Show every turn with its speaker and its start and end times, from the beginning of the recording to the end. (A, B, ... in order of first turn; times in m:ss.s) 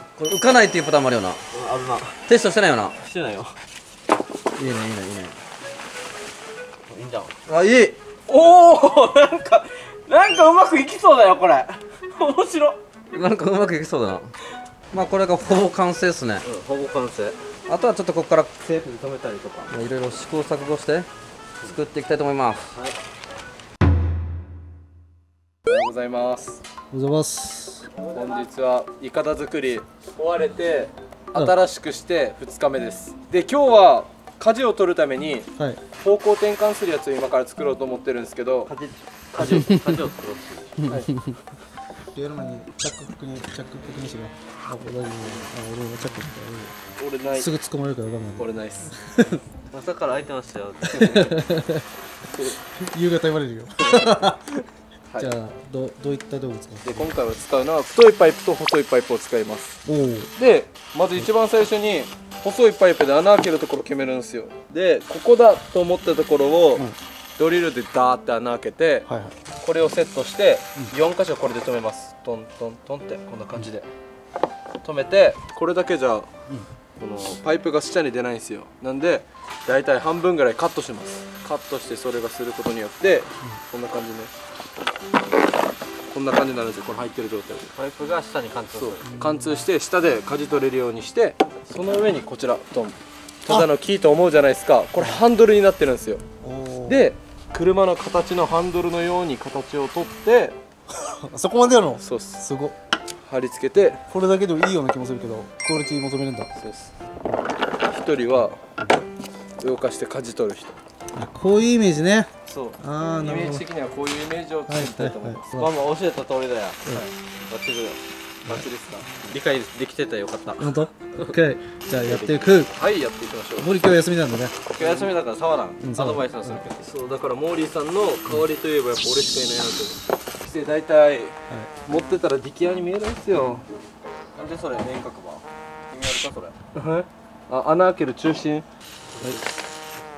0:00.2-0:01.4 A
0:01.5-0:02.2 B
0:02.3-0:03.0 A
0:03.0-0:03.6 B
0:04.6-0:05.4 A
0:06.9-0:07.3 B
0:07.5-0:08.0 A
0:08.3-0:12.8 B
0:13.1-0:14.3 A
0:14.9-0:16.4 A
0:16.4-0:17.4 B
0:17.7-0:18.7 A
0:18.6-0:19.7 B
0:19.7-0:21.1 A
0:21.6-0:22.7 A
0:25.6-0:26.6 C
0:26.9-0:27.9 D
0:27.9-0:28.4 B
0:28.1-0:38.7 C
0:38.6-0:40.7 B
0:40.8-0:41.3 D
0:42.1-0:46.8 D
0:47.0-0:47.5 C
0:47.4-0:49.4 D
0:48.4-0:48.9 C
0:49.7-0:51.4 B
0:51.4-0:51.8 C
0:52.8-0:54.6 D
0:55.2-0:57.1 D
0:56.8-0:59.8 C
0:59.8-1:00.3 D
1:00.4-1:09.1 C
1:09.1-1:09.3 D
1:09.6-1:13.9 C
1:14.8-1:16.3 C
1:17.0-1:24.3 C
1:26.1-1:27.7 C
1:27.7-1:29.0 B
1:28.7-1:36.2 C
1:29.0-1:29.4 D
1:36.4-1:37.0 D
1:36.8-1:40.6 C
1:41.0-1:42.7 D
1:42.0-1:42.4 C
1:43.2-1:44.0 C
1:44.1-1:46.5 D
1:46.6-1:46.9 C
1:47.8-1:48.7 C
1:49.6-1:50.8 C
1:51.1-1:53.6 D
1:52.5-1:55.5 C
1:54.7-1:55.7 D
1:55.5-2:01.4 B
2:00.6-2:02.7 D
2:02.0-2:02.5 B
2:02.7-2:03.7 C
2:03.6-2:04.6 D
2:04.7-2:06.9 B
2:05.8-2:06.6 D
2:06.8-2:13.6 C
2:14.3-2:16.5 B
2:16.7-2:18.6 C
2:19.1-2:19.5 B